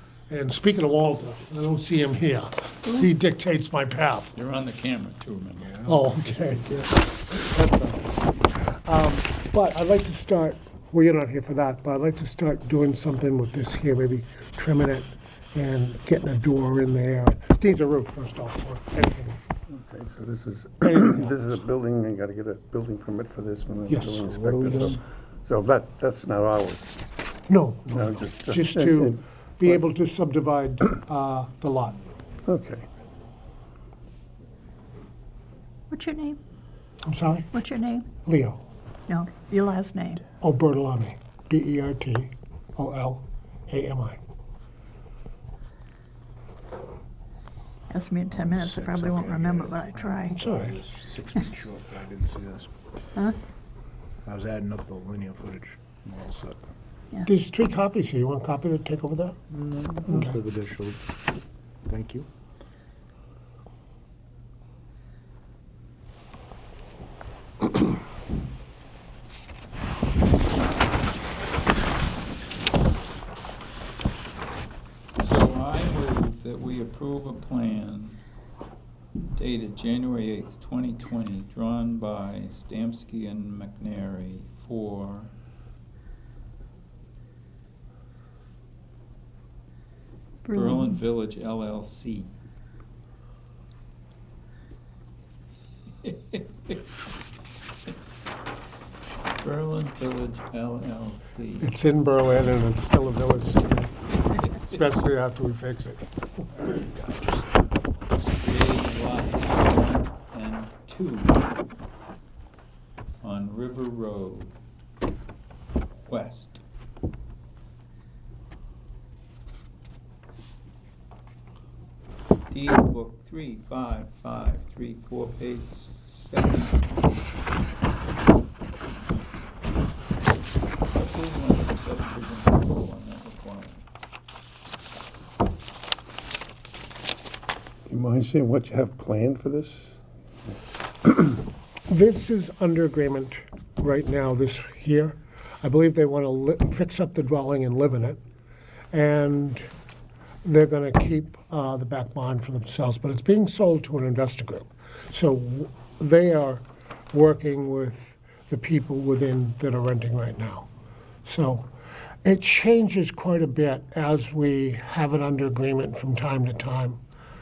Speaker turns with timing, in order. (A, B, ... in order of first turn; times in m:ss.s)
0:00.3-0:04.3 A
0:04.4-0:05.8 B
0:05.6-0:07.0 C
0:05.8-0:19.4 A
0:19.7-0:26.9 D
0:20.8-0:21.4 A
0:23.9-0:25.0 A
0:27.5-0:32.0 A
0:27.9-0:29.8 D
0:32.4-0:32.9 D
0:35.9-0:36.4 E
0:37.0-0:37.5 A
0:37.5-0:38.1 E
0:38.2-0:38.6 A
0:39.1-0:40.2 E
0:40.4-0:44.2 A
0:47.9-0:50.4 E
0:48.3-0:52.7 C
0:50.3-0:50.8 A
0:54.2-0:56.7 C
0:57.2-0:59.4 A
0:59.5-1:01.0 C
1:01.9-1:02.3 C
1:15.2-1:18.2 B
1:19.3-1:25.3 B
1:30.4-1:31.0 E
1:30.5-1:32.3 B
1:36.0-1:36.8 B
1:39.4-1:41.7 B
1:41.6-1:46.1 A
1:48.4-1:51.5 B
1:53.2-1:54.6 B
1:56.1-1:56.6 B
2:02.5-2:06.9 B
2:10.9-2:13.8 B
2:17.9-2:20.0 D
2:21.9-2:28.2 A
2:28.9-2:29.7 A
2:30.4-2:40.7 A
2:41.2-2:41.7 A
2:42.2-2:47.0 A